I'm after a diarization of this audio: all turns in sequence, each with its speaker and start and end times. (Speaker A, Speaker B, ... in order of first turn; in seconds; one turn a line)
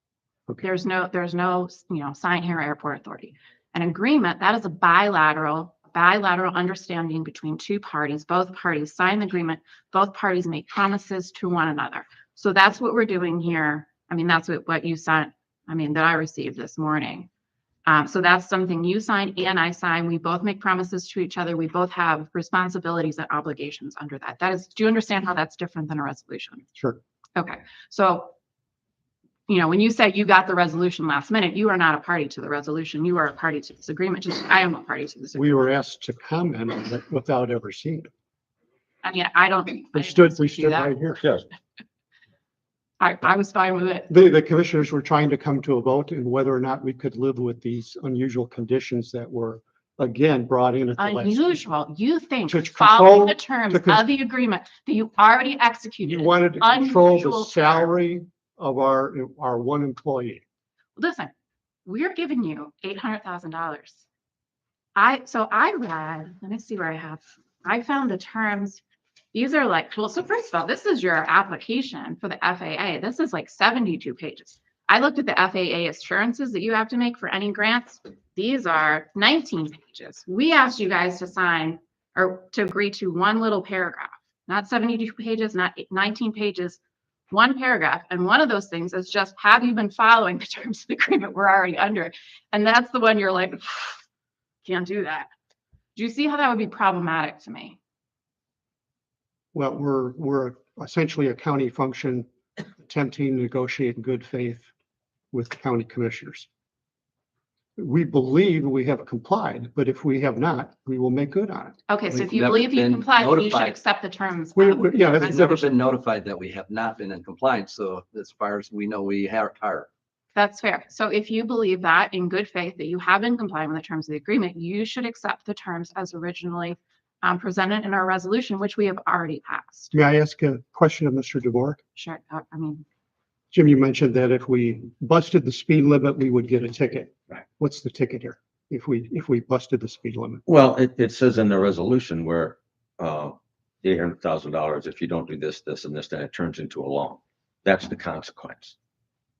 Speaker A: 0.6-17.3
Speaker A: 17.9-26.6
Speaker A: 27.4-28.3
Speaker A: 29.5-35.7
Speaker B: 35.3-38.1
Speaker A: 39.0-40.9
Speaker B: 39.9-41.2
Speaker A: 43.0-44.1
Speaker B: 44.1-51.5
Speaker A: 51.0-57.8
Speaker B: 52.5-54.0
Speaker B: 56.0-60.4
Speaker A: 61.0-61.3
Speaker A: 61.9-64.0
Speaker A: 65.0-68.8
Speaker A: 69.3-86.8
Speaker A: 87.3-94.0
Speaker A: 94.6-95.3
Speaker A: 96.0-97.8
Speaker B: 99.5-102.3
Speaker B: 102.8-104.7
Speaker B: 105.3-106.5
Speaker B: 107.8-111.8
Speaker A: 111.9-115.3
Speaker C: 112.1-113.8
Speaker B: 114.5-115.7
Speaker C: 115.2-119.9
Speaker A: 120.3-129.9
Speaker B: 129.9-131.8
Speaker A: 131.9-132.8
Speaker B: 133.5-140.4
Speaker D: 140.4-148.7